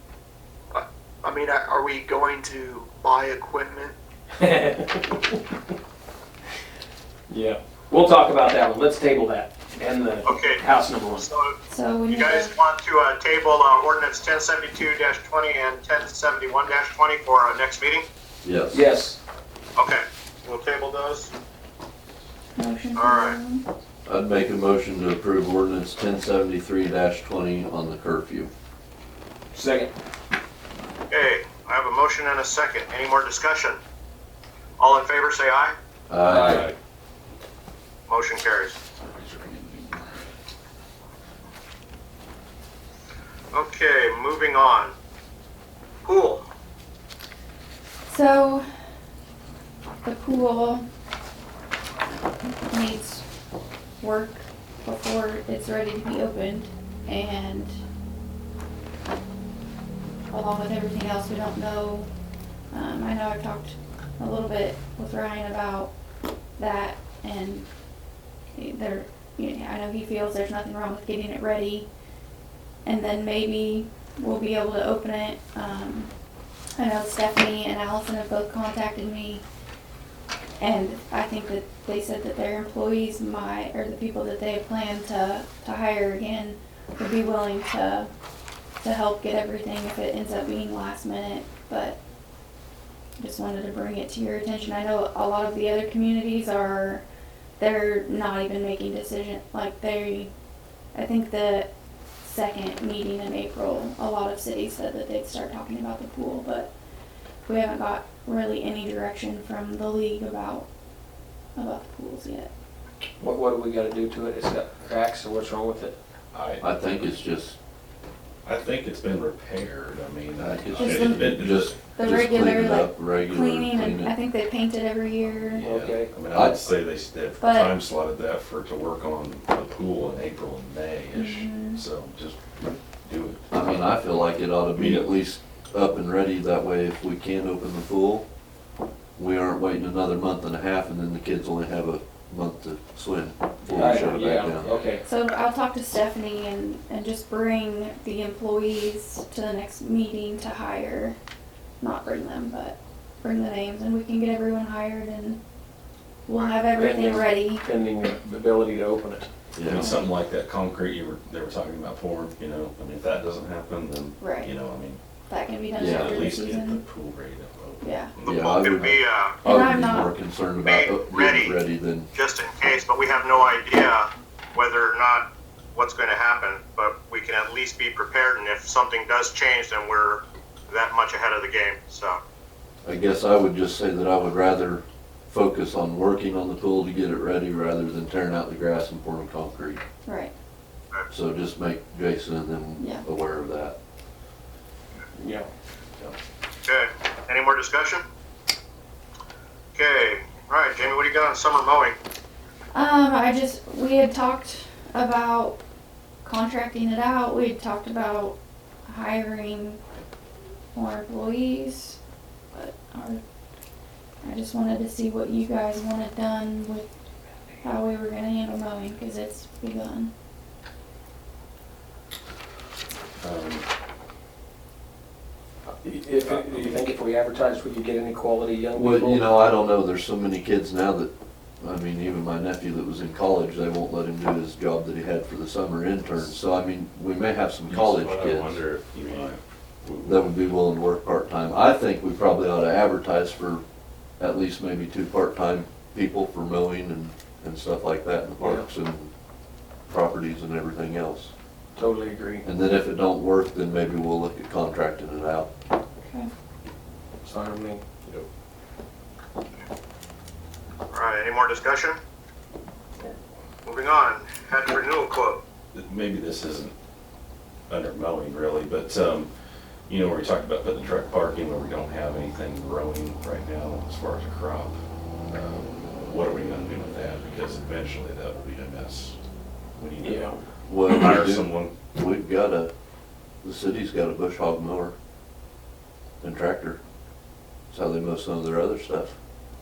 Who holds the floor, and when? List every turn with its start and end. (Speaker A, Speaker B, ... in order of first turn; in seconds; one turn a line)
Speaker A: 0.7-3.9
Speaker B: 4.4-5.1
Speaker B: 7.3-11.3
Speaker C: 10.2-10.6
Speaker C: 11.2-11.5
Speaker D: 11.7-12.5
Speaker C: 12.1-18.0
Speaker E: 18.4-18.8
Speaker B: 18.7-19.2
Speaker C: 19.8-21.3
Speaker D: 22.6-23.6
Speaker C: 22.9-23.4
Speaker E: 24.1-28.5
Speaker B: 29.5-29.9
Speaker C: 31.1-33.8
Speaker C: 34.8-35.7
Speaker E: 36.1-36.7
Speaker B: 36.2-36.6
Speaker F: 36.3-36.7
Speaker C: 38.1-38.8
Speaker F: 39.0-40.3
Speaker C: 43.5-44.9
Speaker C: 46.0-46.4
Speaker D: 48.1-48.7
Speaker D: 50.0-50.8
Speaker D: 52.7-53.2
Speaker D: 54.0-57.8
Speaker D: 60.3-62.1
Speaker D: 62.7-65.9
Speaker D: 66.6-67.7
Speaker D: 68.5-71.9
Speaker D: 72.8-76.1
Speaker D: 76.7-79.4
Speaker D: 80.6-88.1
Speaker D: 88.8-92.0
Speaker D: 93.2-97.0
Speaker D: 97.6-100.3
Speaker D: 100.9-101.7
Speaker D: 102.2-106.7
Speaker D: 107.5-110.7
Speaker D: 111.5-112.5
Speaker B: 113.2-116.0
Speaker F: 116.3-116.6
Speaker E: 116.6-117.5
Speaker F: 118.4-121.8
Speaker E: 120.4-124.1
Speaker D: 120.8-121.4
Speaker D: 121.9-125.7
Speaker F: 125.2-133.8
Speaker B: 125.6-126.2
Speaker E: 126.3-126.6
Speaker D: 127.4-127.7
Speaker D: 131.1-131.8
Speaker E: 133.5-138.2
Speaker F: 134.7-135.1
Speaker E: 139.2-144.7
Speaker B: 143.6-145.0
Speaker F: 144.5-145.0
Speaker D: 145.0-151.2
Speaker D: 151.8-155.4
Speaker D: 156.3-157.6
Speaker B: 156.7-159.3
Speaker E: 159.6-159.9
Speaker F: 159.6-165.0
Speaker D: 164.2-164.5
Speaker D: 165.3-166.8
Speaker F: 165.8-169.0
Speaker E: 165.8-166.2
Speaker D: 167.8-168.1
Speaker C: 168.2-169.4
Speaker E: 168.2-172.1
Speaker D: 169.4-170.1
Speaker C: 170.6-171.6
Speaker C: 172.1-182.2
Speaker E: 182.8-189.8
Speaker D: 190.0-190.3
Speaker E: 191.1-193.8
Speaker D: 192.8-193.0
Speaker B: 195.2-195.5
Speaker C: 196.6-198.0
Speaker C: 199.7-201.9
Speaker D: 202.7-205.6
Speaker D: 206.2-209.8
Speaker D: 210.7-212.0
Speaker D: 212.5-213.2
Speaker D: 214.2-216.9
Speaker D: 217.6-220.1
Speaker F: 223.2-223.7
Speaker B: 225.8-229.3
Speaker F: 226.2-226.9
Speaker E: 228.7-238.6
Speaker F: 237.7-240.4
Speaker E: 240.0-243.6
Speaker E: 244.2-249.1
Speaker E: 249.9-251.3
Speaker B: 251.8-252.4
Speaker E: 252.4-255.5
Speaker D: 256.0-256.3
Speaker B: 257.2-257.9
Speaker C: 260.9-262.0
Speaker C: 263.6-265.4
Speaker F: 265.7-266.7
Speaker F: 267.7-269.3
Speaker F: 269.9-279.2
Speaker F: 279.8-281.7
Speaker B: 280.0-280.4
Speaker E: 280.7-282.7
Speaker E: 283.4-284.9
Speaker E: 286.2-286.8
Speaker E: 287.7-289.1